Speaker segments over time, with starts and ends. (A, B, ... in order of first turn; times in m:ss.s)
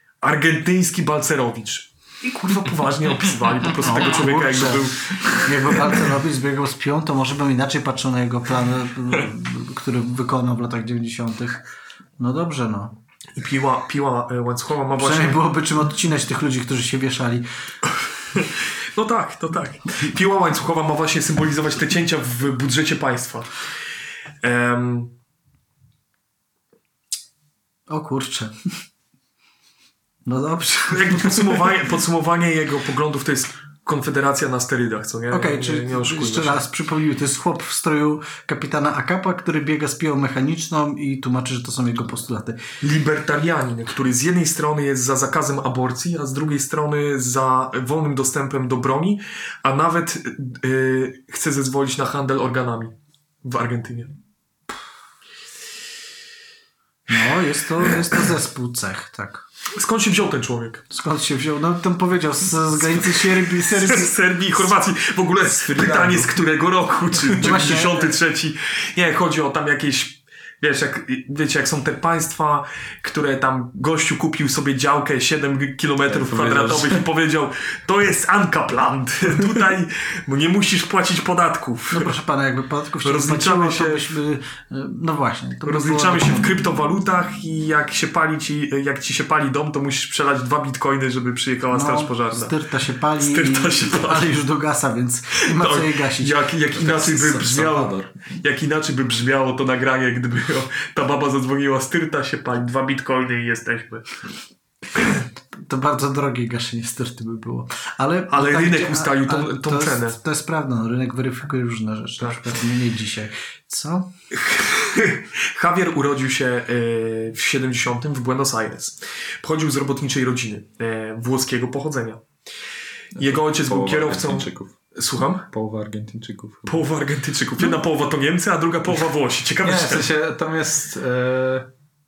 0:00.2-0:05.8 A
0:03.8-0:11.6 B
0:12.2-0:12.9 B
0:13.4-0:15.4 A
0:15.0-0:17.5 B
0:18.3-0:23.5 A
0:24.4-0:25.1 A
0:27.9-0:28.6 B
0:30.3-0:31.6 B
0:30.9-0:36.6 A
0:35.3-0:42.6 B
0:42.8-0:52.9 A
0:53.4-0:54.1 A
0:57.1-0:59.4 B
0:59.8-1:00.8 A
1:00.9-1:04.1 B
1:03.5-1:22.1 A
1:05.5-1:06.4 C
1:07.3-1:08.2 B
1:16.1-1:17.1 C
1:21.9-1:26.5 B
1:23.0-1:24.1 A
1:25.6-1:32.5 A
1:31.7-1:37.3 B
1:33.2-1:34.4 A
1:35.4-1:44.1 A
1:37.1-1:38.1 C
1:45.5-1:54.1 B
1:48.3-1:50.2 A
1:54.3-2:02.2 A
2:03.1-2:04.8 C
2:03.2-2:05.4 A
2:05.4-2:06.9 C
2:06.6-2:10.1 A
2:09.6-2:11.7 C